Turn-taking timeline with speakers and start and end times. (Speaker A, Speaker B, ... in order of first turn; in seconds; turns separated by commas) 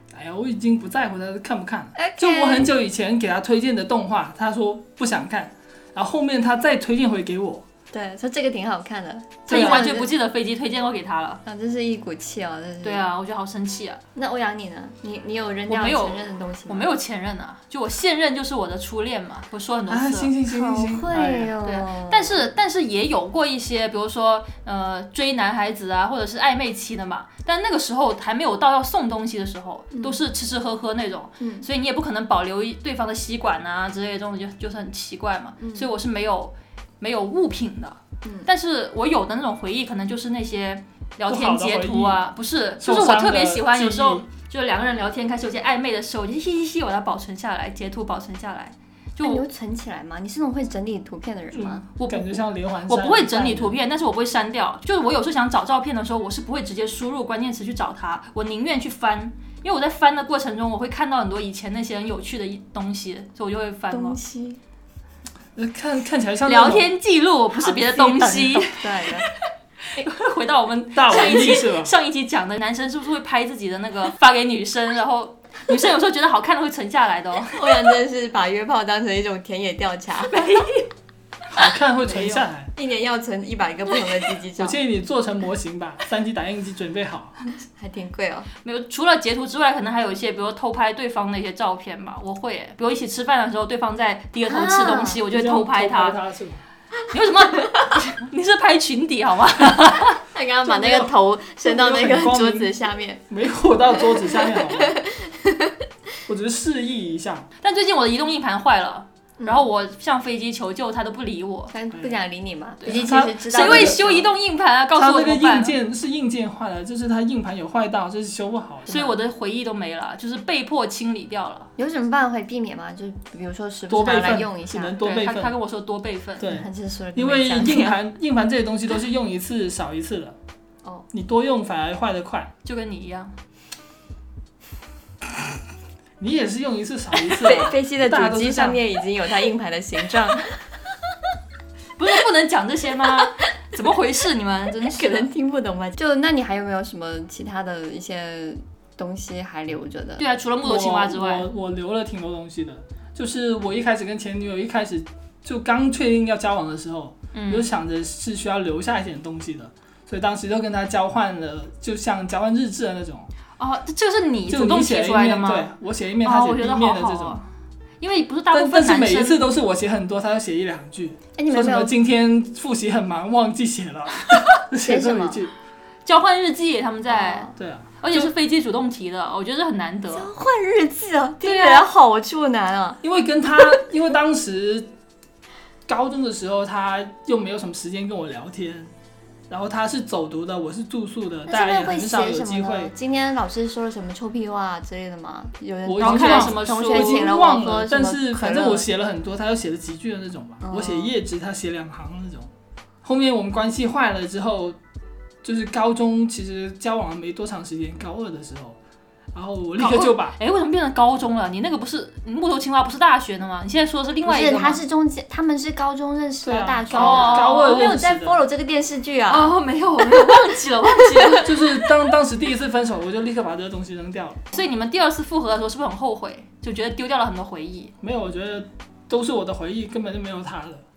Speaker A: 0.1-7.6, Speaker B: 1.9-2.7, Speaker B: 7.9-10.1, Speaker C: 9.5-11.4, Speaker A: 9.5-9.8, Speaker B: 11.4-13.0, Speaker C: 12.8-14.0, Speaker B: 14.1-16.9, Speaker C: 15.7-20.3, Speaker A: 19.9-21.5, Speaker B: 20.5-22.5, Speaker C: 21.6-49.4, Speaker B: 29.9-30.2, Speaker B: 31.4-31.7, Speaker B: 35.6-35.9, Speaker B: 38.2-38.5, Speaker A: 41.3-42.2, Speaker A: 42.8-44.2, Speaker B: 49.2-51.9, Speaker A: 51.5-53.8, Speaker C: 52.0-64.2, Speaker B: 63.9-64.6, Speaker A: 65.6-66.9, Speaker C: 66.5-69.3, Speaker B: 67.5-69.3, Speaker C: 69.9-77.8, Speaker A: 70.9-71.9, Speaker B: 77.5-80.3, Speaker C: 80.3-80.9, Speaker A: 81.5-82.7, Speaker B: 82.0-84.8, Speaker A: 84.6-87.4, Speaker B: 87.8-88.5, Speaker C: 88.6-96.2, Speaker B: 94.5-95.2, Speaker A: 95.3-96.6, Speaker C: 97.1-100.2, Speaker B: 100.3-103.2, Speaker A: 100.6-105.0, Speaker B: 103.9-105.8, Speaker A: 106.3-107.5, Speaker C: 107.6-111.7, Speaker B: 109.4-109.7, Speaker B: 111.7-114.2, Speaker C: 112.8-115.8, Speaker A: 112.8-114.3, Speaker A: 114.9-118.9, Speaker B: 118.9-119.2, Speaker C: 118.9-121.7, Speaker B: 121.8-125.1, Speaker A: 123.9-125.5, Speaker C: 125.0-126.5, Speaker A: 126.4-130.3, Speaker B: 126.5-128.0, Speaker A: 131.1-132.5, Speaker C: 132.6-133.3, Speaker A: 136.2-138.8, Speaker B: 137.2-140.5, Speaker C: 142.0-145.3, Speaker B: 144.8-150.2, Speaker C: 150.2-151.5, Speaker A: 150.6-163.3, Speaker C: 157.3-157.7, Speaker C: 163.6-165.7, Speaker A: 164.5-167.4, Speaker C: 166.2-167.5, Speaker C: 168.0-169.4, Speaker A: 168.5-175.5, Speaker B: 171.4-171.9, Speaker B: 174.8-175.4, Speaker C: 176.1-177.5, Speaker B: 177.1-177.5, Speaker A: 177.6-178.3, Speaker C: 178.0-180.3, Speaker B: 180.1-183.0, Speaker C: 181.4-181.8, Speaker A: 183.0-184.9, Speaker A: 185.9-188.9, Speaker A: 189.5-192.9, Speaker B: 191.5-198.9, Speaker A: 195.8-202.5, Speaker C: 196.0-197.3, Speaker B: 200.6-201.1, Speaker A: 203.0-204.8, Speaker A: 205.4-208.8, Speaker A: 209.3-210.3, Speaker C: 209.8-214.8, Speaker B: 214.2-221.5, Speaker A: 216.4-218.4, Speaker C: 216.9-217.9, Speaker C: 219.3-221.5, Speaker A: 221.3-224.5, Speaker C: 224.5-227.9, Speaker A: 228.0-230.8